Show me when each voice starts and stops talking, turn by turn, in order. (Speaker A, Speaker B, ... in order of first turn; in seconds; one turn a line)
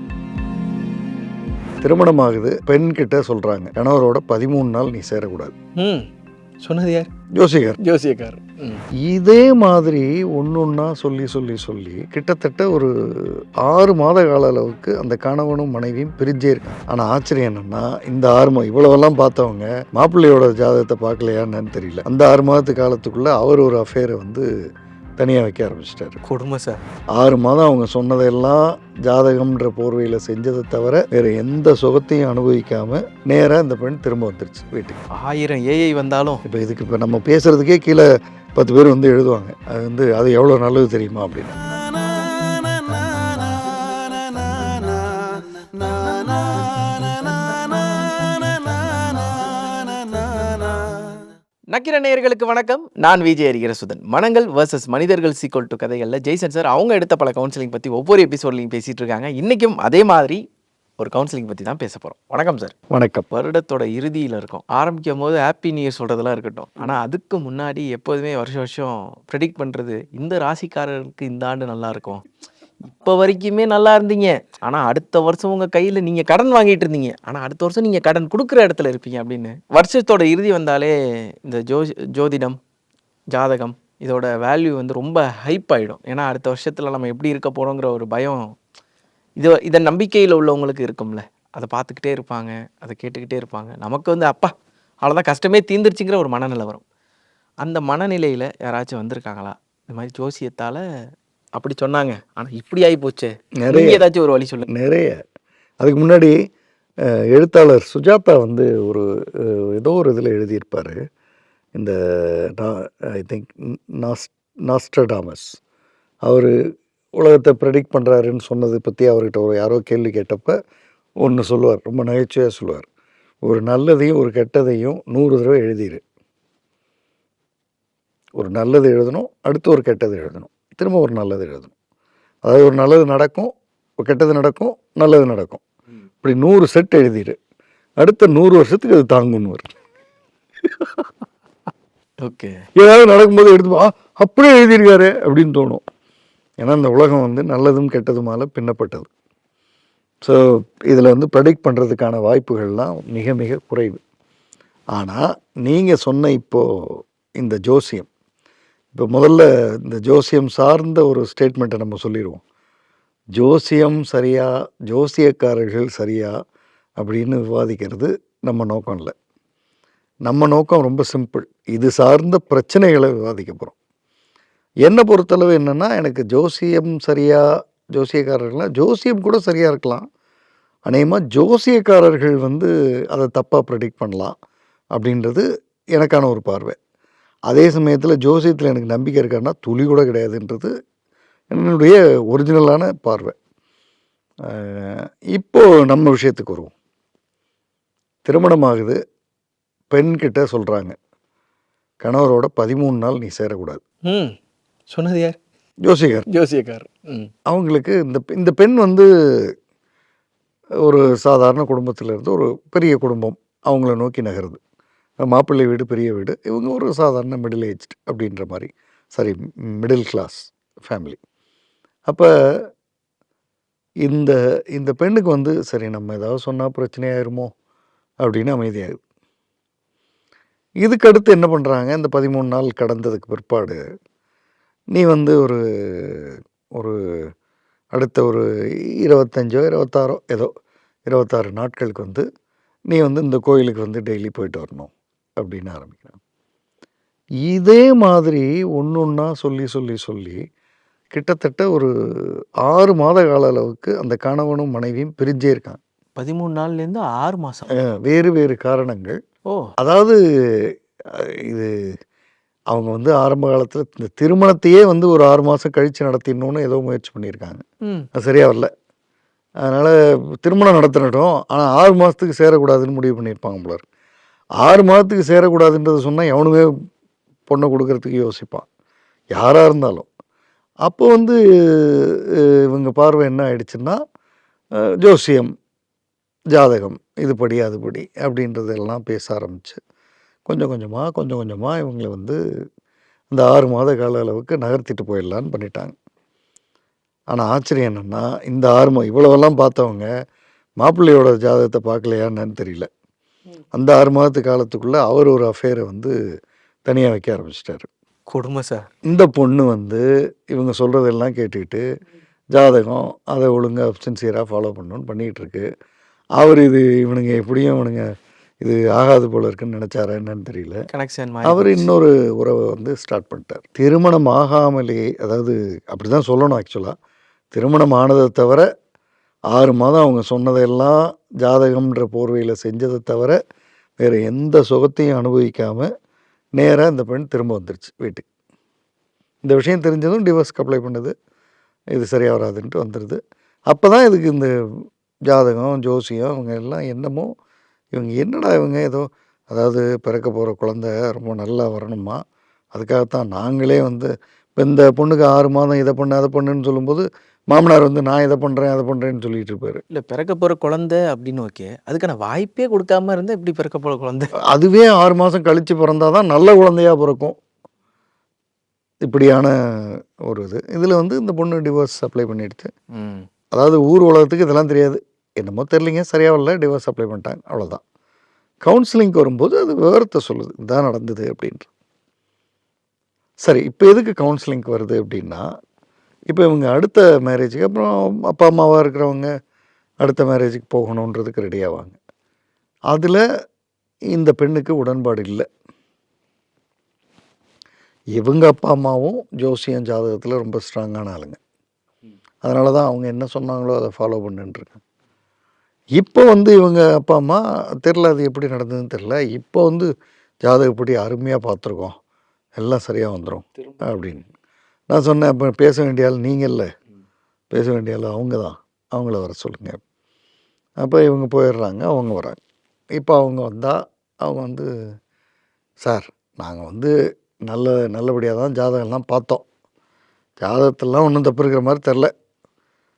Speaker A: 1.8-5.5
Speaker B: 5.8-6.1
Speaker B: 6.6-7.1
Speaker A: 7.3-7.8
Speaker B: 7.8-8.8
Speaker A: 8.9-24.5
Speaker A: 25.2-26.2
Speaker B: 26.2-26.8
Speaker A: 27.1-35.0
Speaker B: 35.1-36.4
Speaker A: 36.4-41.8
Speaker B: 51.7-60.4
Speaker B: 61.0-62.7
Speaker A: 62.9-63.3
Speaker B: 63.3-72.2
Speaker B: 72.8-82.6
Speaker B: 83.3-88.5
Speaker B: 89.4-96.8
Speaker B: 97.6-100.8
Speaker B: 101.5-104.7
Speaker A: 103.6-104.0
Speaker A: 104.7-105.2
Speaker A: 105.8-106.3
Speaker A: 107.0-111.0
Speaker A: 111.8-115.6
Speaker A: 116.2-116.5
Speaker A: 117.2-120.5
Speaker A: 121.2-122.8
Speaker A: 123.4-126.0
Speaker A: 128.3-131.7
Speaker A: 132.4-135.6
Speaker A: 136.2-137.4
Speaker A: 138.0-139.7
Speaker B: 142.2-142.6
Speaker A: 142.8-145.8
Speaker A: 146.6-149.1
Speaker A: 150.2-154.0
Speaker A: 154.9-158.1
Speaker A: 158.9-162.4
Speaker A: 163.3-166.3
Speaker A: 167.0-169.1
Speaker A: 170.2-173.7
Speaker A: 174.8-180.0
Speaker A: 180.8-184.3
Speaker A: 184.9-186.8
Speaker A: 187.5-190.7
Speaker A: 191.5-193.3
Speaker A: 194.4-196.7
Speaker A: 198.2-199.0
Speaker A: 199.9-200.9
Speaker A: 202.0-203.8
Speaker B: 204.1-204.3
Speaker B: 204.9-205.4
Speaker A: 205.8-206.2
Speaker B: 206.3-207.3
Speaker A: 207.5-209.5
Speaker A: 210.8-214.6
Speaker A: 215.2-221.2
Speaker A: 222.1-222.7
Speaker A: 224.0-227.5
Speaker A: 228.2-229.0
Speaker A: 230.8-233.8
Speaker A: 234.9-237.3
Speaker A: 237.9-238.5
Speaker A: 239.0-240.5
Speaker A: 241.1-242.2
Speaker A: 242.9-246.2
Speaker A: 247.4-250.4
Speaker A: 251.1-255.8
Speaker B: 256.2-257.7
Speaker A: 257.8-259.2
Speaker A: 259.8-261.7
Speaker A: 262.7-268.7
Speaker A: 269.6-273.8
Speaker A: 274.6-276.7
Speaker A: 277.5-278.6
Speaker A: 279.3-280.1
Speaker A: 280.8-284.0
Speaker A: 285.0-285.5
Speaker A: 286.5-289.8
Speaker A: 290.4-292.4
Speaker A: 293.3-295.9
Speaker A: 297.3-300.1
Speaker A: 300.8-302.9
Speaker A: 303.7-306.1
Speaker A: 306.9-307.9
Speaker B: 308.3-308.9
Speaker A: 309.1-311.8
Speaker A: 312.5-315.7
Speaker A: 316.4-320.9
Speaker B: 320.9-321.9
Speaker A: 321.4-326.9
Speaker A: 327.5-328.7
Speaker A: 329.5-333.4
Speaker A: 334.0-335.9
Speaker A: 336.6-338.2
Speaker A: 339.4-341.1
Speaker A: 341.9-344.5
Speaker A: 345.3-347.3
Speaker A: 347.9-352.2
Speaker A: 352.7-359.8
Speaker B: 359.9-364.3
Speaker A: 364.5-367.4
Speaker A: 369.0-372.7
Speaker B: 372.9-373.2
Speaker A: 373.5-377.8
Speaker A: 378.6-381.7
Speaker A: 383.4-385.4
Speaker A: 386.3-389.3
Speaker A: 390.0-392.0
Speaker A: 392.9-393.2
Speaker A: 394.1-395.4
Speaker A: 398.1-401.4
Speaker A: 402.4-404.8
Speaker A: 405.9-409.9
Speaker A: 410.4-411.9
Speaker A: 412.6-414.2
Speaker A: 414.9-416.7
Speaker A: 417.5-419.8
Speaker A: 420.8-422.4
Speaker A: 422.9-424.7
Speaker A: 425.8-426.9
Speaker A: 427.4-429.4
Speaker A: 430.4-432.1